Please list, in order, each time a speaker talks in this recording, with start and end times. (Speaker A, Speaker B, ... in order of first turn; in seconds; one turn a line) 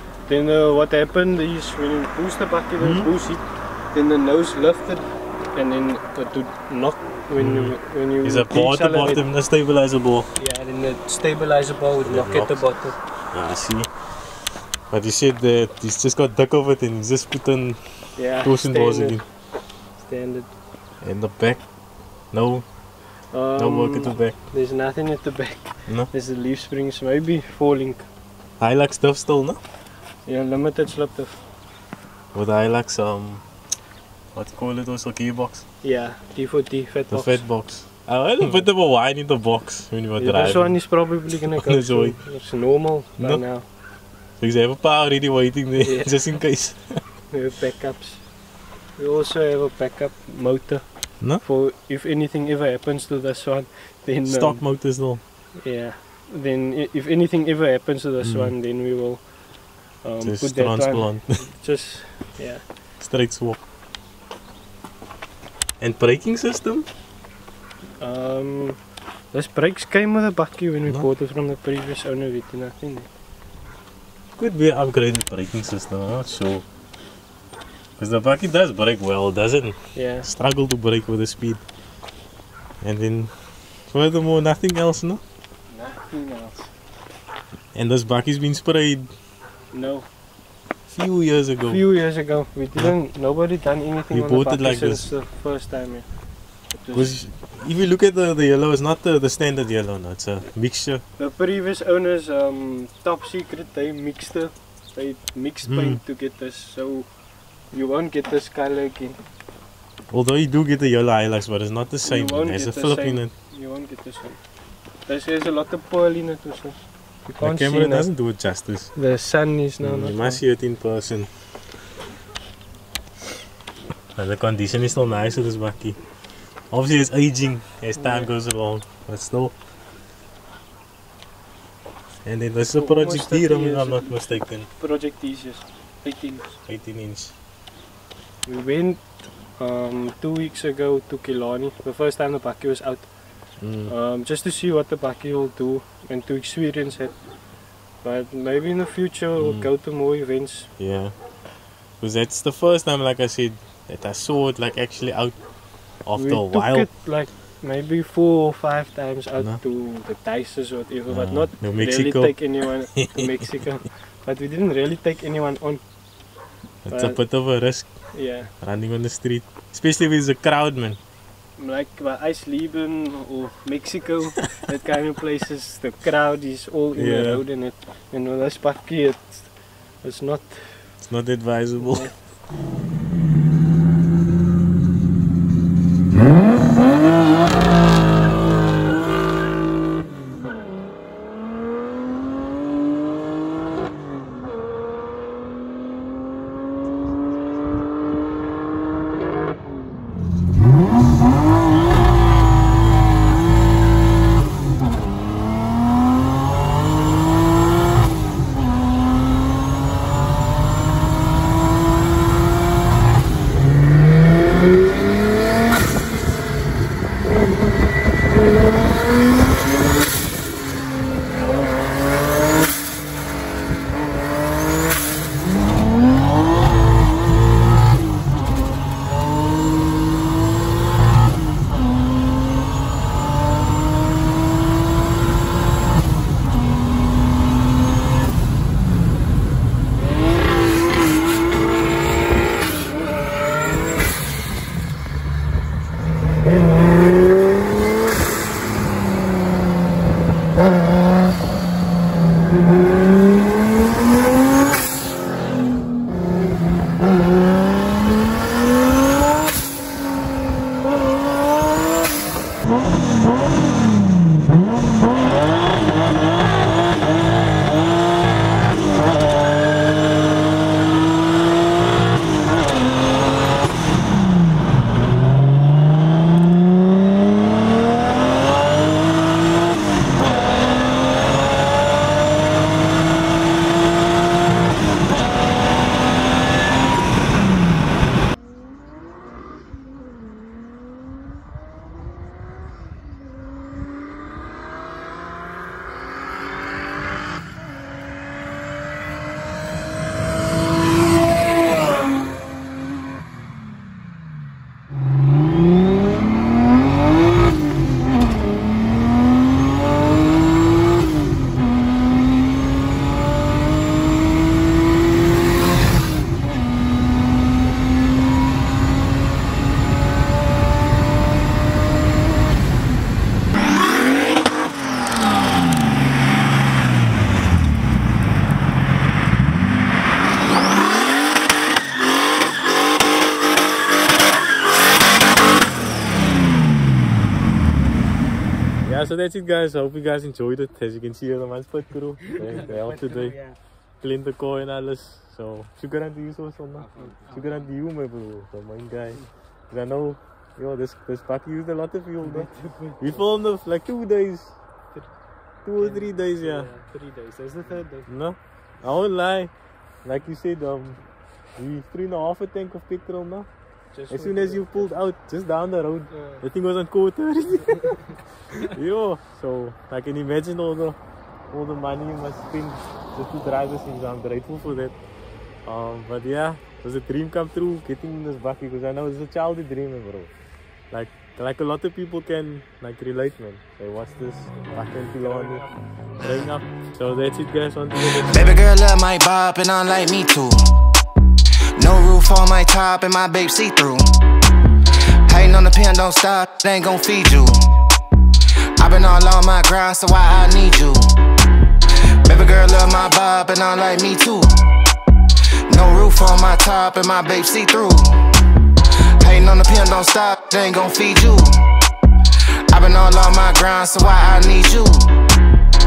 Speaker A: 0.2-9.2
Speaker B: 2.8-3.1
Speaker B: 7.4-10.3
Speaker A: 10.3-12.9
Speaker B: 12.0-12.6
Speaker B: 13.3-13.9
Speaker B: 14.9-19.2
Speaker A: 18.2-19.2
Speaker A: 20.0-20.5
Speaker B: 21.0-21.7
Speaker B: 22.3-22.6
Speaker A: 23.3-28.1
Speaker B: 23.6-24.4
Speaker B: 28.6-29.6
Speaker A: 30.2-31.4
Speaker B: 32.3-33.4
Speaker B: 34.3-35.6
Speaker A: 35.8-37.4
Speaker B: 37.1-40.8
Speaker A: 40.2-43.6
Speaker B: 41.3-42.2
Speaker B: 44.4-46.8
Speaker A: 45.8-46.1
Speaker A: 47.3-48.2
Speaker A: 49.0-54.6
Speaker B: 54.2-55.2
Speaker A: 55.6-59.3
Speaker B: 58.2-58.5
Speaker A: 60.0-62.6
Speaker B: 60.2-61.5
Speaker B: 63.0-63.6
Speaker B: 65.8-66.9
Speaker A: 68.0-68.8
Speaker A: 69.3-73.1
Speaker B: 74.4-76.6
Speaker B: 78.0-81.6
Speaker A: 79.9-80.3
Speaker B: 82.8-83.3
Speaker B: 83.9-85.2
Speaker A: 85.7-86.7
Speaker B: 87.7-89.1
Speaker A: 89.7-90.1
Speaker B: 90.9-91.8
Speaker A: 91.6-96.1
Speaker B: 94.1-95.1
Speaker A: 96.8-97.2
Speaker B: 96.9-101.0
Speaker A: 101.2-107.1
Speaker B: 105.7-106.0
Speaker A: 107.7-109.2
Speaker B: 110.1-113.3
Speaker A: 112.0-114.4
Speaker A: 115.0-118.1
Speaker B: 117.4-118.9
Speaker A: 118.9-120.4
Speaker B: 119.8-121.3
Speaker B: 124.2-126.0
Speaker B: 126.7-129.5
Speaker A: 128.0-128.3
Speaker B: 132.2-134.7
Speaker A: 132.7-136.6
Speaker B: 136.7-137.3
Speaker A: 138.4-139.0
Speaker A: 139.6-143.1
Speaker B: 143.6-143.9
Speaker A: 143.9-147.2
Speaker A: 148.0-150.7
Speaker B: 149.4-149.7
Speaker B: 150.8-151.2
Speaker B: 152.0-155.3
Speaker B: 156.0-156.9
Speaker A: 156.2-165.8
Speaker B: 161.1-162.4
Speaker B: 162.9-163.4
Speaker B: 166.8-167.9
Speaker A: 166.9-167.2
Speaker A: 168.1-168.5
Speaker B: 168.6-171.0
Speaker A: 171.6-180.9
Speaker B: 176.9-177.4
Speaker B: 181.0-182.1
Speaker A: 181.8-182.3
Speaker B: 338.8-343.4
Speaker A: 342.5-342.9
Speaker B: 344.0-352.5
Speaker A: 346.9-347.5
Speaker A: 352.2-353.2
Speaker B: 353.0-354.6
Speaker B: 355.6-356.7
Speaker A: 355.8-358.1
Speaker B: 358.1-359.5
Speaker B: 360.0-361.0
Speaker B: 361.6-363.5
Speaker A: 363.9-364.9
Speaker B: 364.1-371.0
Speaker A: 366.1-366.4
Speaker B: 371.5-374.9
Speaker B: 375.6-380.3
Speaker B: 380.9-385.6
Speaker B: 386.2-388.6
Speaker C: 388.3-390.6
Speaker C: 391.8-394.0
Speaker C: 395.2-397.6
Speaker C: 398.8-401.1
Speaker C: 402.2-404.7
Speaker C: 405.7-408.3
Speaker C: 409.2-411.7
Speaker C: 412.7-415.1